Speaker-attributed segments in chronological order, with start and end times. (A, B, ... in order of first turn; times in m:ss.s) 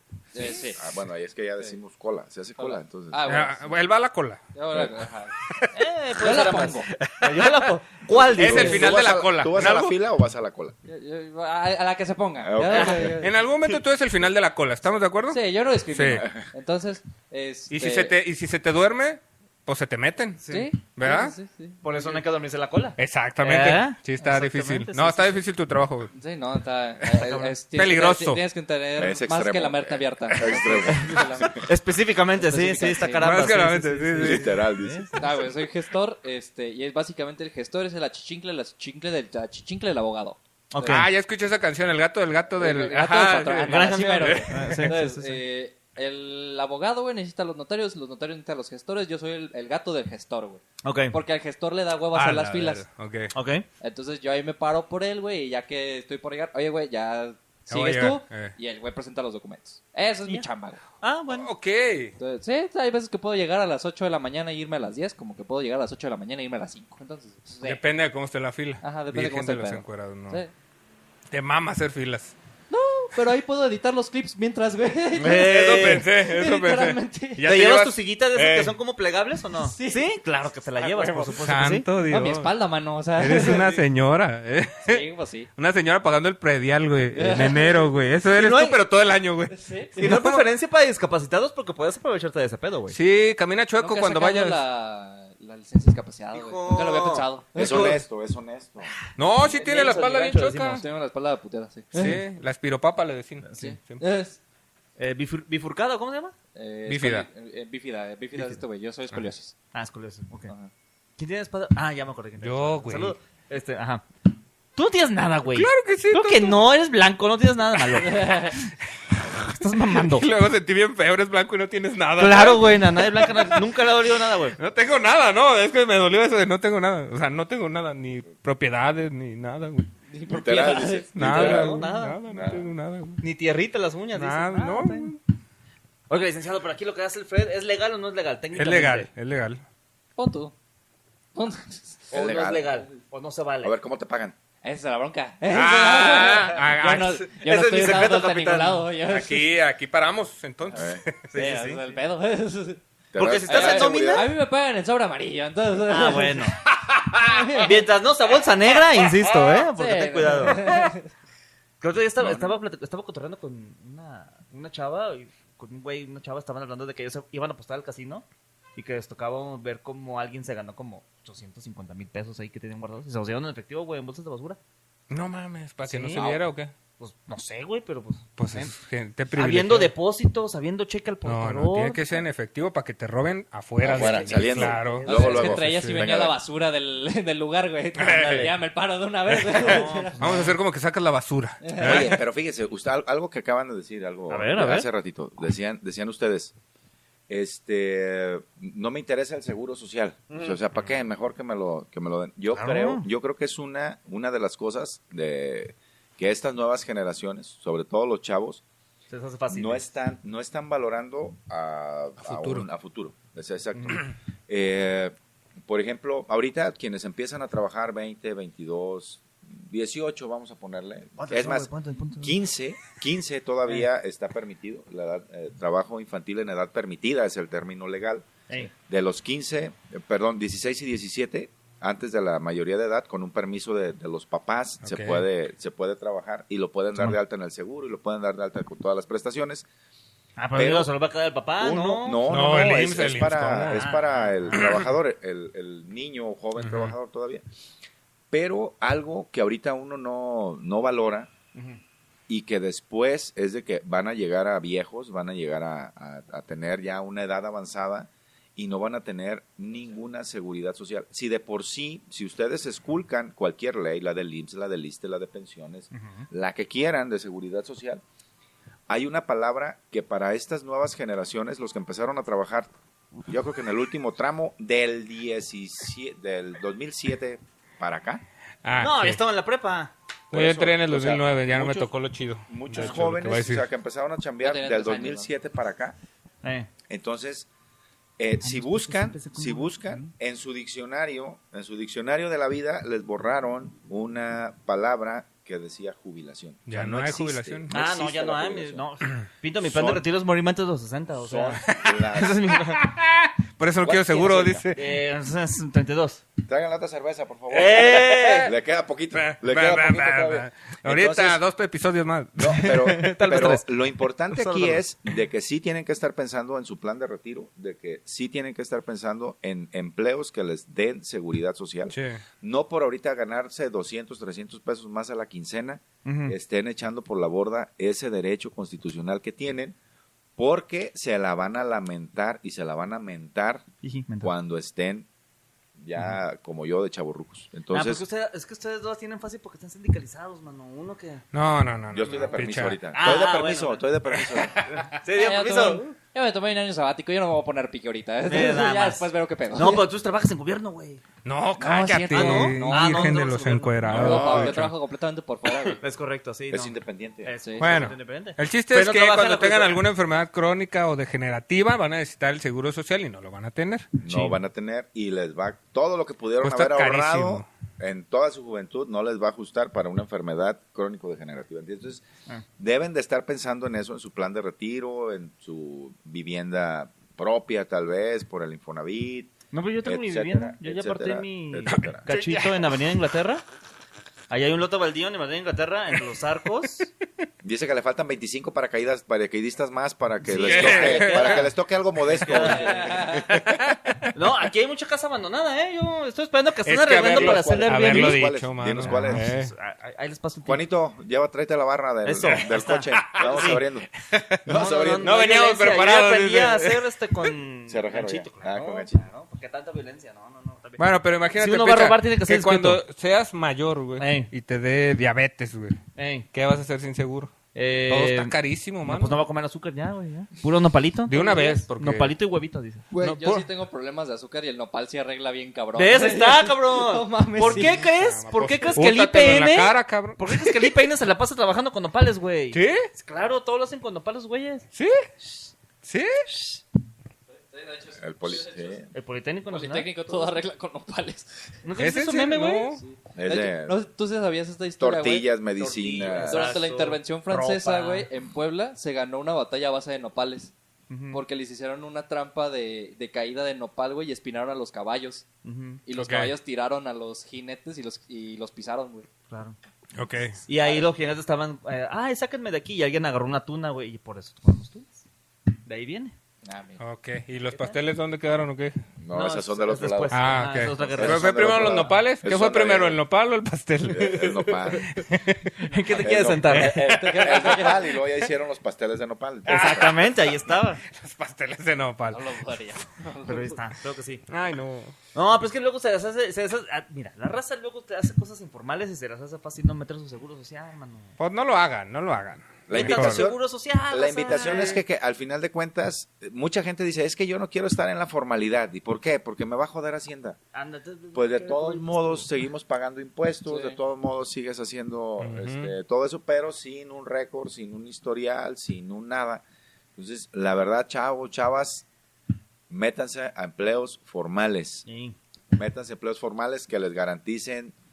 0:00.3-0:00.8 A
0:00.4-0:03.4 B
0:02.6-0:03.7 A
0:03.3-0:04.4 C
0:04.6-0:05.4 A
0:05.7-0:08.9 D
0:06.2-0:06.9 A
0:06.3-0:07.6 C
0:08.1-0:10.8 B
0:08.4-0:10.0 C
0:10.9-0:13.4 A
0:12.4-0:13.2 B
0:12.6-0:13.1 D
0:13.2-0:16.3 C
0:15.3-0:18.1 A
0:17.7-0:21.4 C
0:20.4-0:20.7 D
0:20.5-0:22.2 A
0:21.8-0:25.4 D
0:23.0-0:26.1 C
0:26.1-0:31.7 A
0:27.0-0:28.4 C
0:29.0-0:31.6 B
0:30.9-0:35.1 D
0:32.4-0:33.6 A
0:33.2-0:34.5 C
0:34.2-0:35.5 B
0:35.2-0:41.0 A
0:40.7-0:41.1 D
0:40.8-0:44.9 C
0:42.6-0:52.8 A
0:43.7-0:45.4 D
0:50.8-0:51.2 D
0:52.1-0:53.3 C
0:53.3-0:53.7 D
0:53.8-1:00.8 A
0:57.7-0:58.5 C
1:01.0-1:01.5 D
1:01.3-1:02.2 C
1:02.2-1:07.8 A
1:07.6-1:10.4 C
1:08.8-1:10.5 A
1:11.3-1:12.4 C
1:12.7-1:17.4 A
1:15.2-1:18.8 C
1:15.2-1:16.1 D
1:17.4-1:21.9 D
1:19.6-1:20.1 A
1:20.8-1:21.3 A
1:21.0-1:22.5 C
1:22.0-1:23.8 A
1:23.2-1:25.0 C
1:24.9-1:25.5 A
1:25.6-1:30.4 C
1:27.1-1:27.9 A
1:28.3-1:28.8 D
1:29.5-1:30.0 A
1:30.0-1:33.0 D
1:32.9-1:34.6 C
1:33.8-1:38.0 A
1:36.3-1:38.0 D
1:37.6-1:38.9 B
1:39.2-1:40.8 C
1:39.4-1:40.8 D
1:40.8-1:42.2 A
1:41.9-1:44.0 C
1:43.4-1:43.8 D
1:43.6-1:44.4 A
1:45.0-1:46.4 D
1:46.6-1:49.5 A
1:46.9-1:47.3 C
1:48.4-1:48.6 D
1:49.7-1:50.5 D
1:51.2-1:54.1 D
1:52.4-1:53.2 C
1:54.8-1:58.6 D
1:55.6-1:56.6 C
1:58.0-1:58.6 A
1:59.2-2:00.3 D
1:59.9-2:03.6 C
2:02.2-2:04.6 D
2:04.6-2:09.9 C
2:10.1-2:11.1 A
2:10.3-2:12.7 B
2:11.2-2:13.2 C
2:11.2-2:12.2 D
2:13.2-2:15.1 D
2:14.2-2:15.2 C
2:16.1-2:19.1 D
2:18.6-2:19.6 C
2:20.2-2:20.5 A
2:21.4-2:22.1 A
2:22.1-2:23.7 D
2:22.1-2:22.8 B
2:23.6-2:24.4 B
2:24.6-2:29.5 A
2:25.5-2:27.3 C
2:27.4-2:28.8 D
2:29.1-2:31.2 C
2:30.7-2:31.0 B
2:31.3-2:31.8 D
2:31.4-2:32.8 A
2:33.1-2:34.3 B
2:33.2-2:34.3 D
2:33.5-2:36.5 A
2:35.9-2:36.6 D
2:36.8-2:37.2 C
2:37.2-2:37.8 A
2:37.5-2:40.7 D
2:39.3-2:39.6 C
2:39.7-2:41.1 A
2:40.5-2:40.9 C
2:41.8-2:48.2 D
2:42.2-2:42.6 B
2:48.8-2:54.6 D
2:55.1-2:56.7 C
2:55.9-2:56.3 D
2:57.0-2:58.7 D
2:58.4-2:59.9 C
2:59.3-3:02.0 D
3:01.2-3:06.1 C
3:03.8-3:06.4 B
3:03.9-3:05.6 D
3:05.0-3:10.5 A
3:08.0-3:08.6 C
3:08.1-3:08.5 D
3:09.3-3:12.2 C
3:09.5-3:10.5 D
3:11.6-3:12.1 A
3:11.8-3:16.5 B
3:14.3-3:14.9 D
3:17.3-3:28.6 B
3:20.3-3:20.6 D
3:22.5-3:23.1 D
3:29.1-3:29.9 D
3:29.5-3:41.7 B
3:32.2-3:32.7 C
3:33.7-3:34.0 D
3:41.2-3:42.4 D
3:42.2-3:59.7 B
3:54.8-3:55.2 C
4:00.4-4:02.3 D
4:00.6-4:00.9 B
4:01.6-4:07.4 B
4:02.3-4:03.9 C
4:03.7-4:04.7 D
4:04.5-4:04.9 C
4:06.6-4:06.9 C
4:08.3-4:11.3 B
4:11.6-4:11.8 D
4:12.3-4:28.0 B
4:25.9-4:26.3 D
4:28.9-4:32.7 B
4:33.3-4:38.2 B
4:38.6-4:39.2 C
4:38.8-4:39.9 D
4:40.3-4:41.9 B
4:40.3-4:43.7 C
4:42.5-4:46.0 B
4:42.7-4:43.1 D
4:44.4-4:45.3 A
4:46.4-4:46.7 D
4:46.9-4:47.5 B
4:48.2-4:58.8 B
4:48.4-4:50.1 D
4:56.7-4:57.7 C
4:57.7-5:02.8 D
4:59.6-5:00.0 B
5:01.2-5:02.4 B
5:01.7-5:02.0 C
5:02.8-5:04.9 C
5:03.8-5:04.7 B
5:04.8-5:06.2 D
5:06.4-5:11.4 B
5:07.5-5:08.5 D
5:08.1-5:08.5 C
5:09.1-5:12.7 C
5:12.4-5:29.8 B
5:12.5-5:13.7 D
5:14.3-5:14.8 D
5:21.9-5:22.2 C
5:26.0-5:26.4 D
5:30.4-5:33.7 B
5:33.8-5:34.3 D
5:34.2-5:35.1 B
5:35.8-5:38.0 B
5:37.7-5:41.2 D
5:41.3-5:42.8 C
5:41.9-5:44.7 B
5:42.9-5:43.8 D
5:44.4-5:44.8 C
5:44.6-5:45.8 D
5:45.1-5:49.9 A
5:48.3-5:51.0 D
5:51.2-5:54.8 C
5:51.6-5:53.2 A
5:52.1-5:54.2 D
5:53.8-5:54.6 B
5:53.9-5:55.8 A
5:55.8-5:59.8 D
5:56.5-5:57.3 B
5:57.4-5:57.8 A
5:57.6-6:04.0 C
6:04.0-6:12.1 B
6:04.1-6:04.3 D
6:06.4-6:07.5 C
6:12.6-6:22.0 B
6:19.5-6:23.4 D
6:21.7-6:22.7 C
6:24.3-6:26.9 D
6:27.4-6:33.7 B
6:30.2-6:31.5 D
6:30.4-6:31.5 C
6:32.1-6:32.9 D
6:32.3-6:33.3 A
6:33.2-6:34.1 C
6:34.2-6:38.2 D
6:36.7-6:39.5 C
6:37.1-6:39.3 B
6:38.8-6:40.6 D
6:40.5-6:43.9 B
6:42.0-6:43.6 D
6:43.0-6:43.6 C
6:44.1-6:44.4 C
6:44.5-6:45.1 B
6:44.5-6:50.8 D
6:45.0-6:47.2 C
6:47.7-6:49.1 B
6:50.8-6:55.8 C
6:51.4-6:52.8 D
6:54.0-6:54.3 D
6:56.0-6:56.3 D
6:56.3-6:57.4 C
6:57.6-6:58.3 D
6:57.9-6:59.2 C
6:58.8-7:02.8 D
7:01.1-7:02.1 C
7:02.9-7:03.5 C
7:02.9-7:07.8 A
7:05.8-7:14.7 D
7:07.5-7:10.5 C
7:12.5-7:12.9 C
7:14.7-7:15.0 C
7:15.8-7:16.3 C
7:16.3-7:16.6 D
7:17.5-7:18.9 A
7:18.0-7:18.9 B
7:18.9-7:19.9 D
7:19.5-7:21.3 A
7:21.6-7:22.8 D
7:21.8-7:22.8 C
7:22.8-7:25.3 A
7:23.2-7:23.8 B
7:24.8-7:26.6 B
7:25.6-7:28.1 D
7:26.1-7:30.5 A
7:30.9-7:31.2 D
7:31.1-7:35.3 A
7:35.4-7:35.8 D
7:35.9-7:39.1 A
7:36.0-7:36.3 C
7:39.3-7:39.6 D
7:40.0-7:40.4 C
7:40.5-7:45.0 D
7:40.6-7:40.9 A
7:45.6-7:46.2 D
7:46.4-7:46.8 A
7:46.8-7:48.8 C
7:49.0-7:53.0 B
7:49.1-7:51.7 D
7:50.1-7:55.7 C
7:53.9-7:54.9 B
7:55.6-7:56.8 D
7:56.0-8:00.0 B
7:56.5-7:57.5 C
7:56.8-7:58.0 A
7:59.5-8:00.8 D
8:00.9-8:02.3 C
8:02.1-8:03.6 A
8:03.3-8:04.2 D
8:04.3-8:04.9 C
8:05.1-8:11.1 D
8:11.2-8:13.3 C
8:12.7-8:20.4 B
8:12.7-8:14.8 D
8:20.5-8:22.3 D
8:21.1-8:29.4 B
8:23.5-8:23.8 A
8:25.2-8:25.7 C
8:30.0-8:31.9 B
8:32.7-8:34.8 B
8:34.9-8:35.2 D
8:35.5-8:37.7 B